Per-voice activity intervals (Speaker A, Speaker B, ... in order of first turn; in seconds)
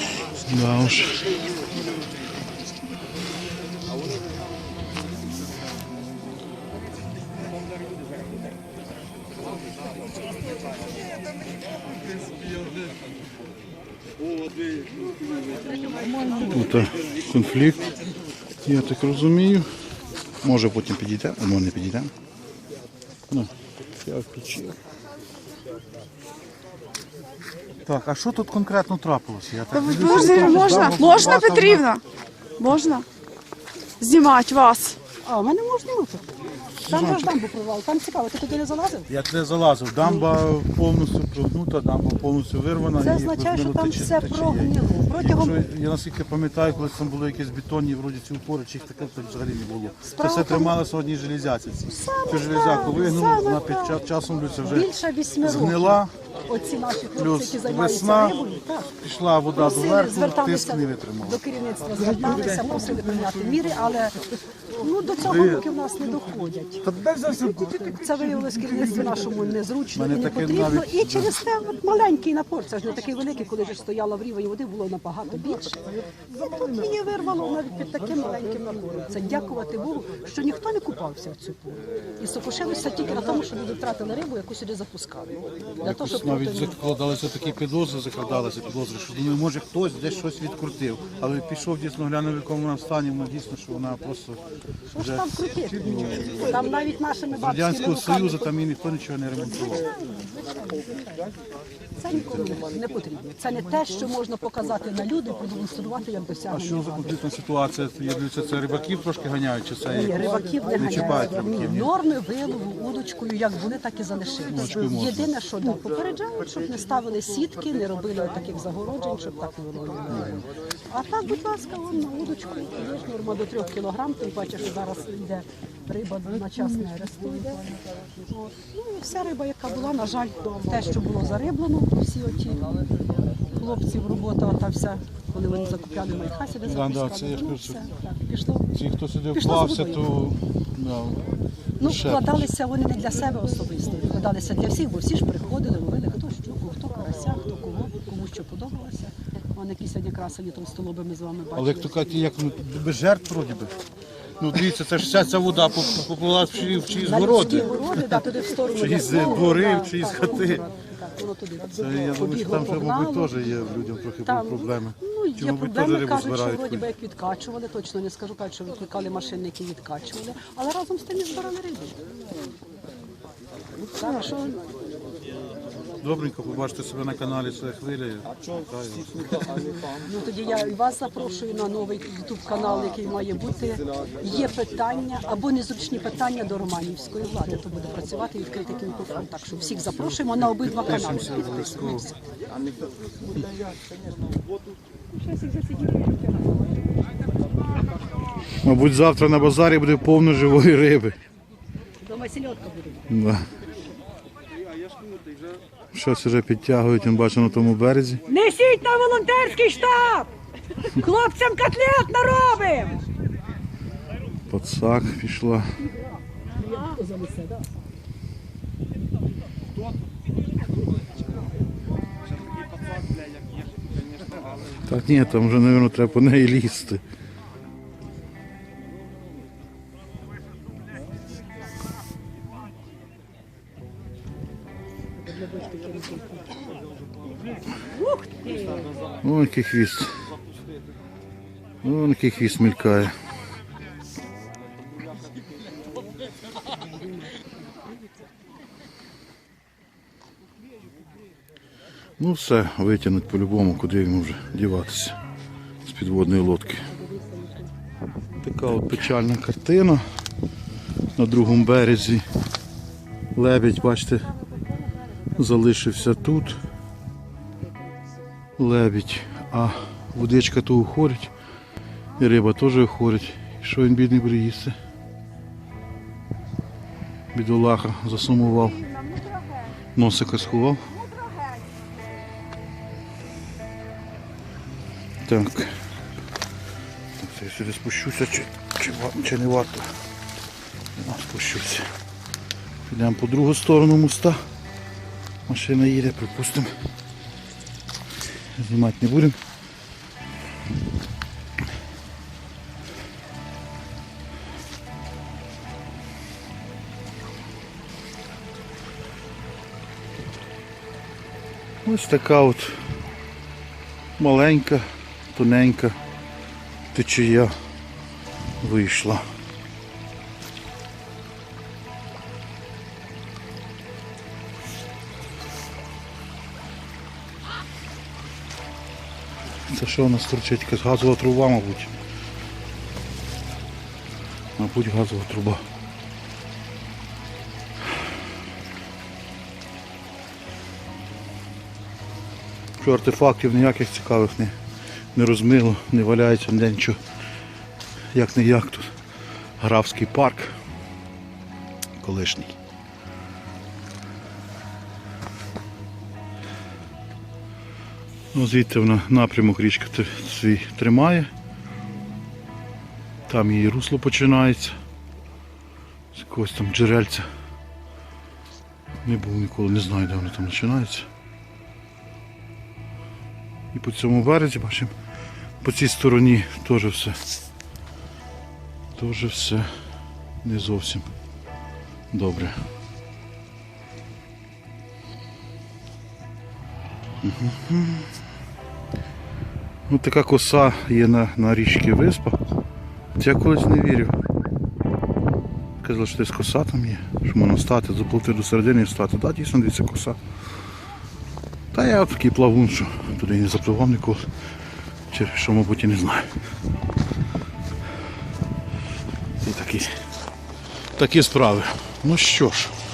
Speaker A: 0.4-1.3, 16.3-17.8, 18.6-19.7, 20.4-22.1, 24.0-24.8, 27.8-31.9, 36.8-37.4, 39.1-56.1, 57.1-58.4, 59.0-61.4, 65.2-65.6, 67.0-67.5, 69.9-71.4, 85.8-94.4, 95.0-96.4, 97.3-99.8, 106.5-111.9, 114.4-115.3, 120.1-120.4, 136.6-137.8, 138.7-141.3, 141.8-142.5, 151.5-153.7, 154.4-160.6, 161.7-166.9, 176.0-179.7, 190.1-192.1, 198.6-201.2, 203.1-203.5, 205.9-208.2, 214.5-215.7, 224.7-227.0, 239.2-240.1, 241.8-243.1, 252.2-255.2, 255.8-256.9, 258.4-260.0, 261.1-262.2, 263.3-264.3, 265.3-266.6, 268.6-271.3, 272.2-274.8, 277.3-279.1, 279.9-281.1, 285.2-285.7, 287.2-289.9, 290.9-291.9, 292.9-294.4, 295.4-296.7, 298.5-299.4, 311.8-312.8, 314.2-316.0, 316.9-317.5, 318.6-319.2, 329.7-331.9, 334.6-335.6, 342.8-344.5, 345.1-347.0, 348.1-348.9, 349.6-350.5, 352.0-352.6, 358.3-361.3, 363.3-364.8, 366.1-367.3, 369.0-371.1, 373.7-374.9, 375.6-377.2, 378.9-379.7, 380.4-381.1, 382.1-382.6, 387.2-388.1, 389.9-392.4, 393.1-394.2, 395.8-400.2, 401.7-404.3, 405.1-406.4, 409.4-409.9, 410.9-412.7
Speaker B: 29.7-32.0, 32.6-33.0, 34.0-35.0, 279.1-279.6
Speaker C: 30.0-31.0, 35.2-36.3, 36.8-39.1, 43.0-45.6, 50.0-50.8, 51.9-54.0, 54.6-58.9, 59.5-64.2, 64.8-75.8, 76.4-86.8, 94.9-98.5, 99.7-101.1, 102.0-107.2, 109.9-120.3, 120.9-127.7, 128.3-132.9, 133.5-138.7, 139.3-140.1, 141.8-152.3, 156.8-163.3, 164.2-172.0, 173.9-174.6, 179.9-192.2, 195.1-196.2, 202.0-203.1, 208.2-213.0, 216.5-217.7, 235.3-236.4, 238.0-238.7, 257.0-257.6